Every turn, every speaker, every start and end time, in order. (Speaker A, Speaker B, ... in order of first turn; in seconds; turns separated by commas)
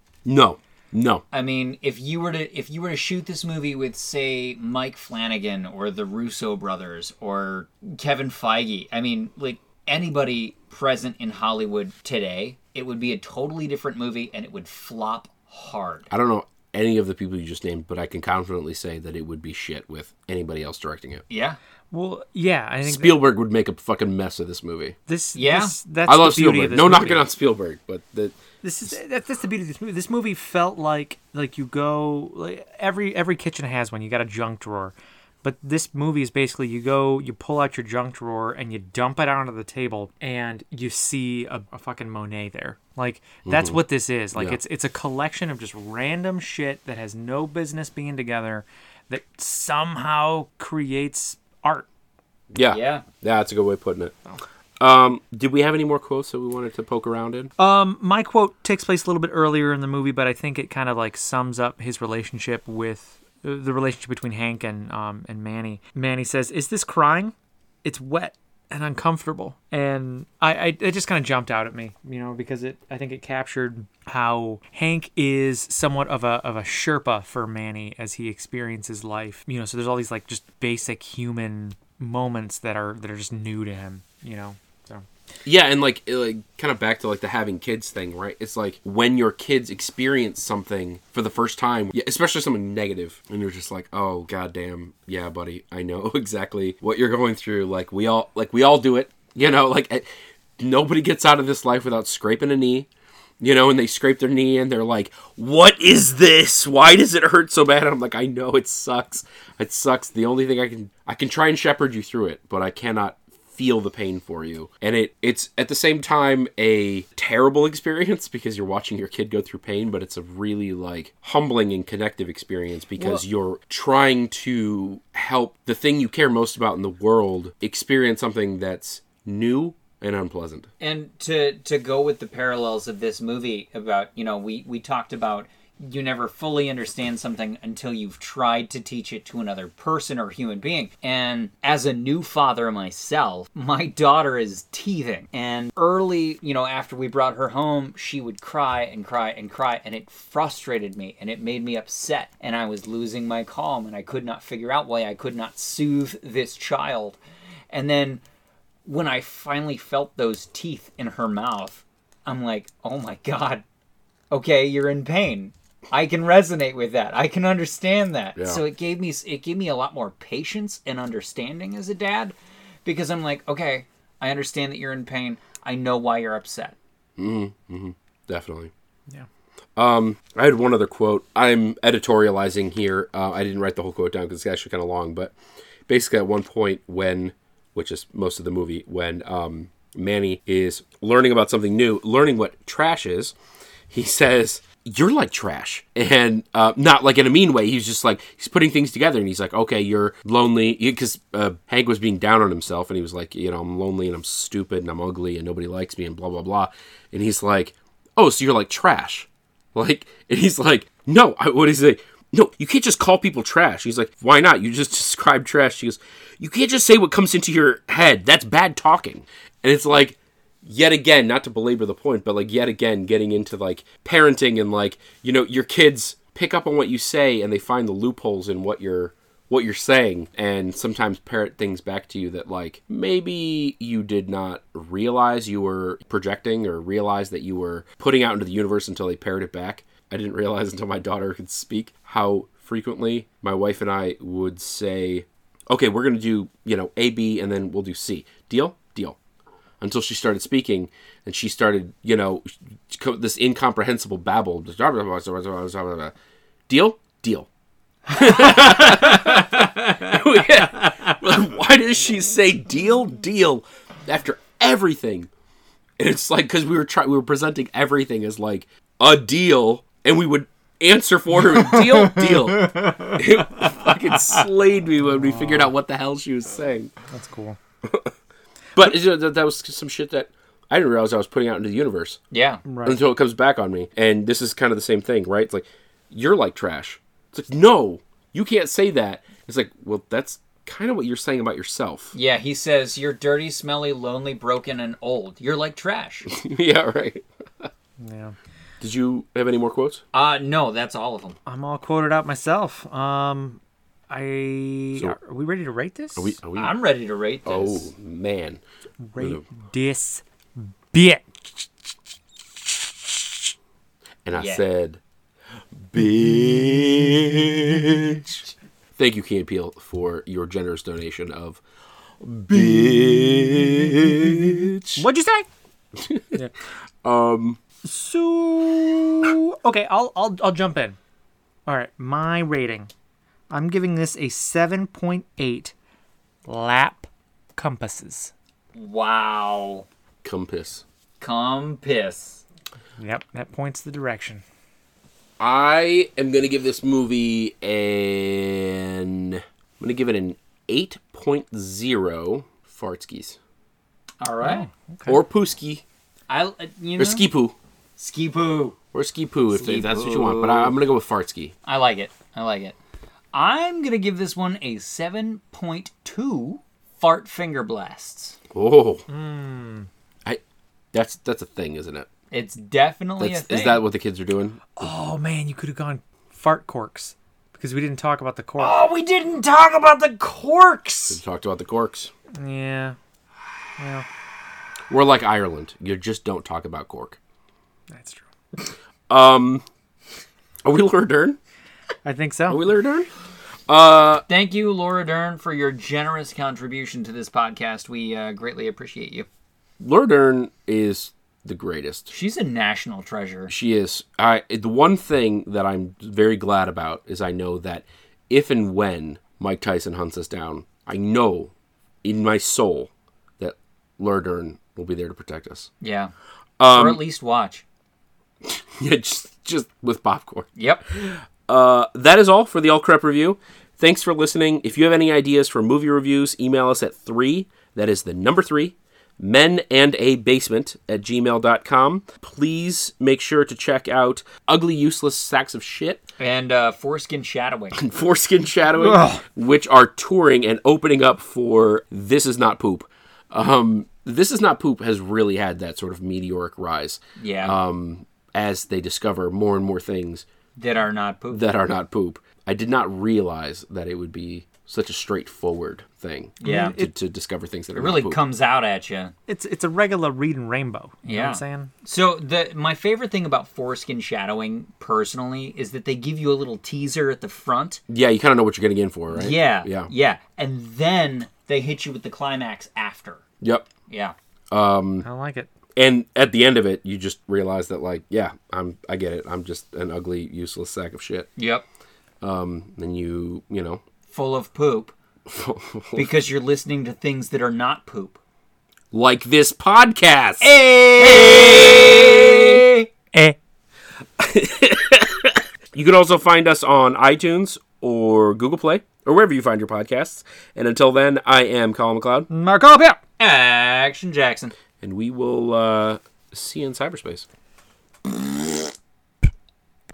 Speaker A: 0.2-1.2, Speaker B: 1.3-16.1, Speaker A: 16.1-21.2, Speaker B: 21.3-21.6, Speaker C: 21.9-23.2, Speaker A: 22.8-25.0, Speaker C: 25.1-27.2, Speaker B: 25.4-25.8, Speaker A: 26.1-28.9, Speaker C: 28.6-51.9, Speaker A: 43.5-43.8, Speaker A: 52.5-54.1, Speaker B: 52.7-53.1, Speaker A: 54.8-57.5, Speaker C: 57.6-85.0, Speaker A: 85.5-100.1, Speaker A: 100.6-102.9, Speaker A: 103.4-130.7, Speaker B: 130.8-157.2, Speaker B: 157.7-158.2, Speaker B: 158.8-163.6, Speaker B: 164.3-176.8, Speaker A: 168.4-168.6, Speaker A: 177.2-178.7, Speaker A: 179.8-185.3, Speaker A: 185.9-193.3, Speaker A: 193.9-249.2, Speaker A: 249.8-256.1, Speaker A: 256.7-257.5, Speaker A: 258.1-265.3, Speaker B: 258.7-260.1, Speaker B: 260.8-261.1, Speaker A: 266.0-276.9, Speaker C: 275.0-275.7, Speaker C: 277.1-277.6, Speaker A: 277.9-278.1, Speaker A: 278.8-282.2, Speaker B: 282.3-282.6, Speaker C: 282.6-283.0, Speaker A: 282.9-292.1, Speaker B: 292.1-296.3, Speaker A: 296.3-297.7, Speaker C: 298.0-298.4, Speaker A: 298.8-300.0, Speaker B: 300.1-301.4, Speaker C: 301.5-306.4, Speaker A: 306.2-306.8, Speaker B: 306.6-307.9, Speaker A: 307.4-308.6, Speaker C: 309.0-311.2, Speaker A: 314.2-315.0, Speaker B: 314.3-314.6, Speaker A: 315.9-318.4, Speaker A: 319.0-321.6, Speaker A: 322.2-325.0, Speaker C: 323.3-324.1, Speaker C: 325.0-325.5, Speaker A: 326.0-326.4, Speaker A: 327.0-327.6, Speaker C: 327.8-331.0, Speaker C: 331.7-332.9, Speaker C: 333.5-335.7, Speaker C: 336.5-338.3, Speaker B: 338.8-339.9, Speaker A: 340.2-340.8, Speaker B: 341.2-342.4, Speaker C: 343.0-344.4, Speaker A: 345.4-353.4, Speaker B: 354.2-354.7, Speaker C: 354.4-355.2, Speaker A: 355.1-355.8, Speaker B: 356.3-357.2, Speaker A: 357.0-357.6, Speaker B: 358.0-358.8, Speaker A: 358.9-361.5, Speaker B: 359.5-360.8, Speaker B: 361.6-362.8, Speaker B: 363.3-368.4, Speaker A: 368.5-369.1, Speaker C: 369.1-369.9, Speaker A: 370.9-372.1, Speaker B: 372.3-373.8, Speaker A: 373.2-374.9, Speaker C: 374.8-378.8, Speaker B: 378.6-381.2, Speaker A: 381.1-382.1, Speaker C: 382.4-383.0, Speaker C: 383.8-384.1, Speaker A: 384.9-387.2, Speaker C: 387.9-388.3, Speaker A: 389.1-389.6, Speaker A: 390.6-391.4, Speaker C: 392.1-392.6, Speaker A: 392.5-393.1, Speaker A: 393.7-394.2, Speaker B: 394.3-399.3, Speaker A: 399.8-402.1, Speaker B: 402.1-403.5, Speaker A: 403.5-411.5, Speaker A: 412.0-415.7, Speaker B: 415.8-416.1, Speaker A: 416.6-417.0, Speaker B: 416.7-417.6, Speaker A: 418.4-436.0, Speaker B: 420.6-420.8, Speaker B: 436.2-437.8, Speaker A: 437.7-450.2, Speaker B: 447.2-447.6, Speaker B: 450.6-451.5, Speaker A: 451.3-458.2, Speaker B: 456.4-456.8, Speaker C: 456.4-456.9, Speaker B: 457.8-459.1, Speaker C: 459.3-461.7, Speaker B: 461.0-467.8, Speaker A: 467.9-469.9, Speaker B: 469.1-473.2, Speaker A: 473.4-473.7, Speaker B: 473.9-474.1, Speaker A: 474.5-475.1, Speaker C: 475.0-475.5, Speaker A: 475.8-481.3, Speaker B: 481.4-481.6, Speaker A: 482.2-483.8, Speaker B: 484.1-484.9, Speaker A: 485.3-486.1, Speaker B: 485.9-488.2, Speaker A: 488.9-492.7, Speaker B: 490.4-492.9, Speaker A: 494.2-502.3, Speaker C: 502.3-503.0, Speaker B: 503.2-504.5, Speaker A: 504.8-507.3